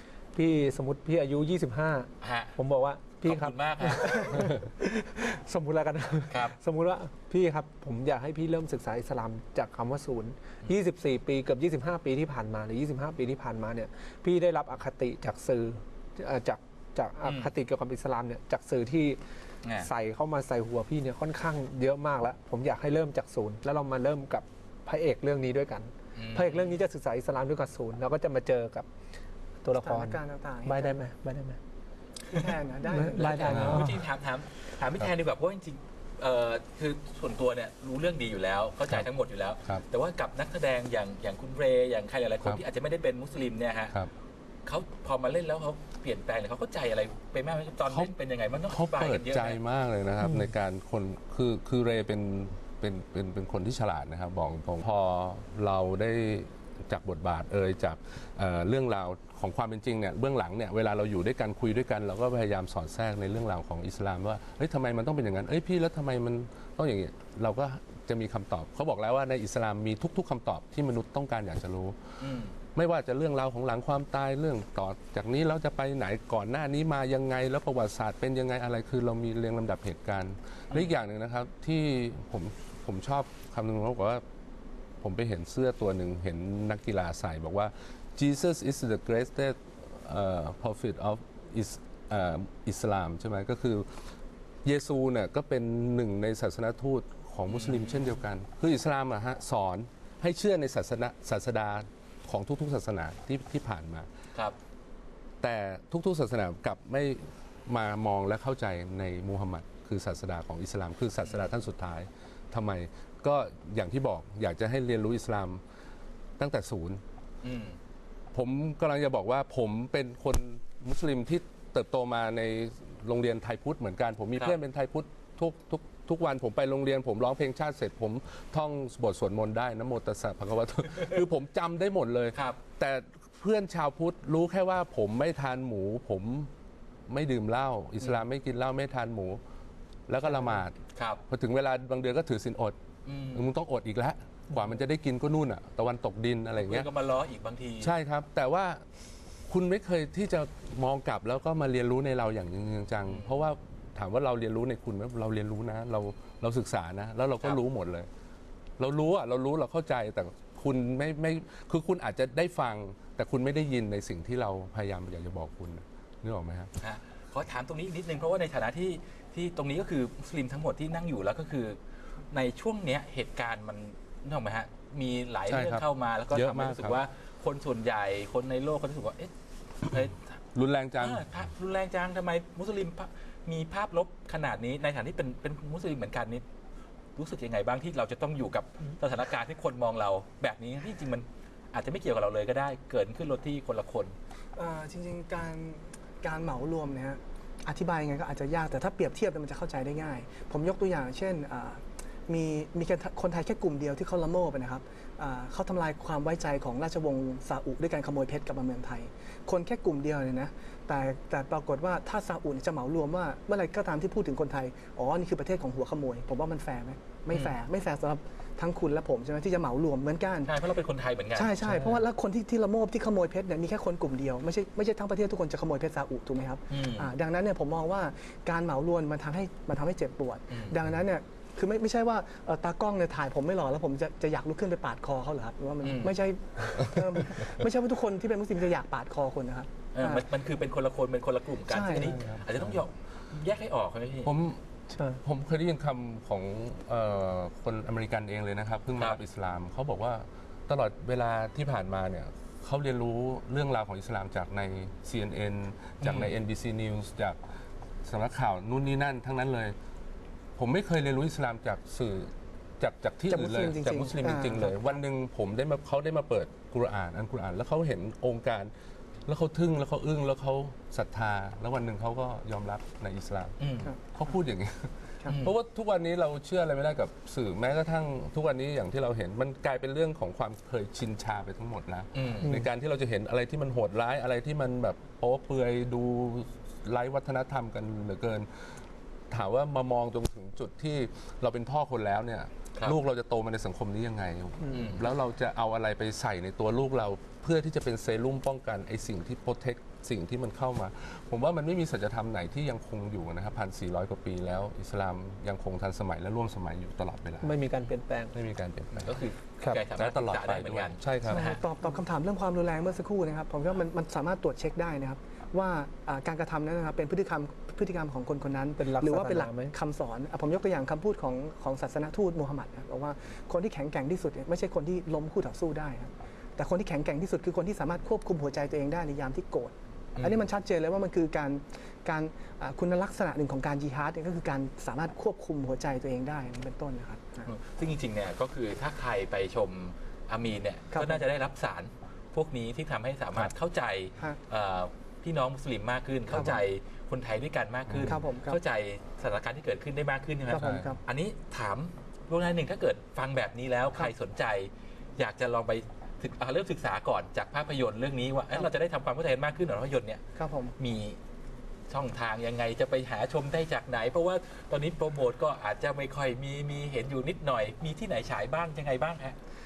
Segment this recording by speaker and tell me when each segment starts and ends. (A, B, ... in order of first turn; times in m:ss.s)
0:00.3-0:19.2 A
0:02.2-0:02.5 B
0:03.2-0:04.5 B
0:06.3-0:06.6 B
0:17.2-0:17.5 B
0:19.8-0:28.9 A
0:26.2-0:26.7 B
0:29.6-0:31.6 A
0:29.8-0:31.0 C
0:32.3-0:33.8 C
0:32.9-0:34.0 A
0:33.2-0:44.0 B
0:33.5-0:33.8 D
0:44.6-0:49.6 B
0:47.8-0:48.1 D
0:48.7-1:24.2 D
0:50.2-0:50.5 A
1:12.2-1:12.5 B
1:25.0-1:44.1 D
1:37.5-1:38.0 B
1:45.4-1:55.6 D
1:51.2-1:51.5 B
1:56.4-1:57.0 D
1:57.4-1:57.8 B
1:58.3-2:16.5 D
2:12.3-2:12.6 B
2:17.1-2:19.4 D
2:20.1-2:20.7 D
2:20.2-2:21.2 B
2:21.3-2:22.8 D
2:23.0-2:23.5 B
2:23.3-2:26.9 D
2:26.6-2:27.9 B
2:27.8-2:28.8 D
2:29.5-2:38.1 D
2:33.1-2:33.3 B
2:38.8-2:46.7 D
2:46.8-2:51.8 B
2:52.3-2:59.3 B
2:55.5-2:57.0 D
2:59.8-3:00.4 B
3:00.5-3:01.3 D
3:01.0-3:06.4 B
3:07.2-3:14.2 B
3:14.6-3:40.5 C
3:40.4-3:42.0 B
3:41.3-4:00.2 C
3:46.7-3:47.1 B
3:55.8-3:56.2 B
3:59.9-4:04.3 B
4:01.7-4:02.2 C
4:02.0-4:02.8 D
4:04.2-4:04.6 D
4:05.2-4:17.4 D
4:16.0-4:16.3 B
4:18.0-4:19.7 D
4:20.6-4:28.7 D
4:23.3-4:25.0 C
4:29.2-4:33.6 D
4:33.6-4:33.9 B
4:34.1-4:48.8 D
4:35.2-4:35.6 B
4:42.1-4:42.6 B
4:49.3-5:07.6 D
4:54.7-4:55.1 B
5:07.4-5:08.3 A
5:08.3-5:09.2 D
5:08.9-5:11.6 B
5:09.9-5:11.5 D
5:11.2-5:37.5 C
5:18.8-5:19.7 A
5:30.2-5:30.4 B
5:37.4-6:00.2 B
5:40.9-5:41.2 C
5:46.3-5:46.6 C
5:47.9-5:48.1 D
5:48.0-5:48.6 C
5:50.5-5:51.0 C
5:50.5-5:50.9 D
6:00.4-6:00.7 C
6:00.8-6:01.2 B
6:01.9-6:09.4 B